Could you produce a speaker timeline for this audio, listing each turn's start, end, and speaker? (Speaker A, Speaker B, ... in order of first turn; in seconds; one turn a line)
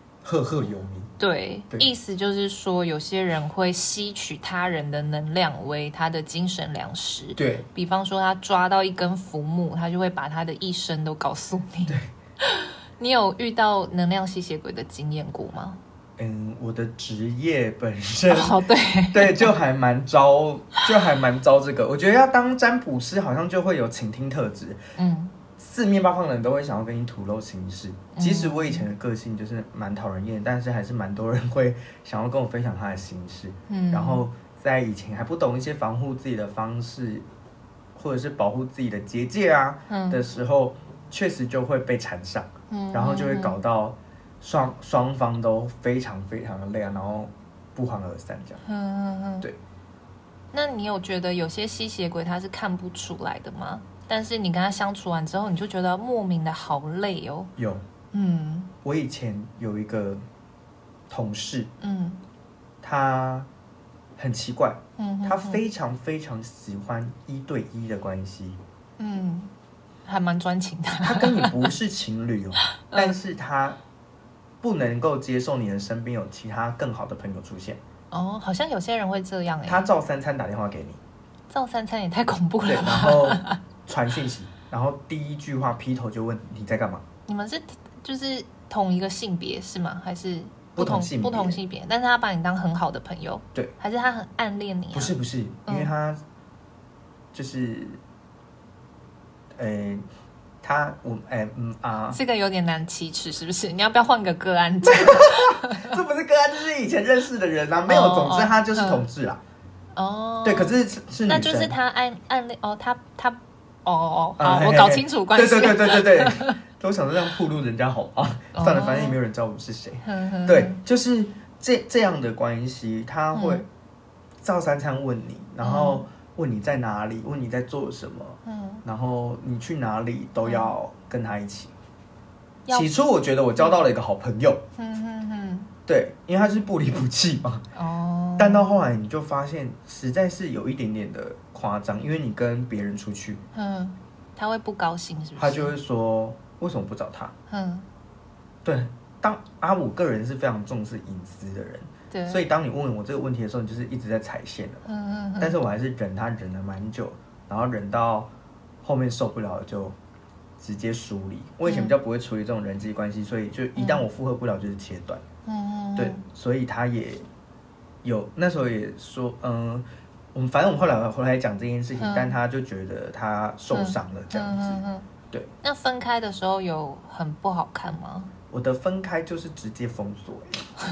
Speaker A: 0.2-1.1
Speaker B: 1.2-15.8
Speaker A: 7.4-7.7
Speaker A: 16.2-24.8
Speaker B: 18.3-19.5
Speaker B: 25.0-25.3
Speaker A: 25.6-37.3
Speaker B: 28.1-28.8
Speaker B: 33.7-34.2
Speaker A: 38.0-48.6
Speaker B: 39.9-40.2
Speaker B: 42.7-43.5
Speaker B: 48.6-49.5
Speaker B: 50.5-57.5
Speaker A: 57.5-57.8
Speaker B: 58.1-58.7
Speaker A: 58.8-60.2
Speaker A: 61.1-61.7
Speaker B: 61.8-62.2
Speaker A: 62.8-63.5
Speaker A: 64.2-68.6
Speaker B: 65.0-65.6
Speaker B: 69.0-69.5
Speaker B: 70.1-71.6
Speaker A: 71.0-73.8
Speaker B: 72.8-73.2
Speaker A: 74.6-77.8
Speaker B: 78.1-79.9
Speaker A: 79.7-81.0
Speaker B: 81.5-83.6
Speaker A: 82.7-87.0
Speaker B: 87.3-95.1
Speaker A: 90.8-91.6
Speaker A: 94.9-96.2
Speaker B: 95.7-95.9
Speaker A: 97.3-98.0
Speaker A: 99.6-100.0
Speaker A: 100.6-102.2
Speaker B: 102.1-106.0
Speaker A: 104.8-109.4
Speaker B: 107.9-109.0
Speaker B: 110.0-110.8
Speaker A: 110.4-111.7
Speaker B: 111.3-116.6
Speaker A: 114.4-123.7
Speaker B: 118.5-119.2
Speaker B: 120.0-120.8
Speaker B: 123.3-123.7
Speaker A: 124.4-131.7
Speaker B: 125.6-126.0
Speaker B: 128.4-128.8
Speaker B: 130.4-130.8
Speaker B: 132.7-132.9
Speaker A: 132.7-134.6
Speaker B: 133.6-133.8
Speaker B: 134.8-135.7
Speaker A: 135.9-137.7
Speaker B: 137.8-138.7
Speaker A: 138.4-143.4
Speaker B: 143.5-145.7
Speaker A: 145.4-147.3
Speaker B: 147.5-147.9
Speaker A: 148.6-154.9
Speaker B: 152.1-152.4
Speaker B: 154.9-155.6
Speaker A: 155.4-158.3
Speaker A: 158.8-160.0
Speaker A: 160.6-165.2
Speaker B: 161.7-161.9
Speaker B: 163.8-164.1
Speaker B: 165.5-166.2
Speaker A: 166.0-167.2
Speaker A: 168.0-175.5
Speaker B: 172.0-172.3
Speaker B: 173.7-175.1
Speaker B: 175.6-178.3
Speaker A: 178.5-180.7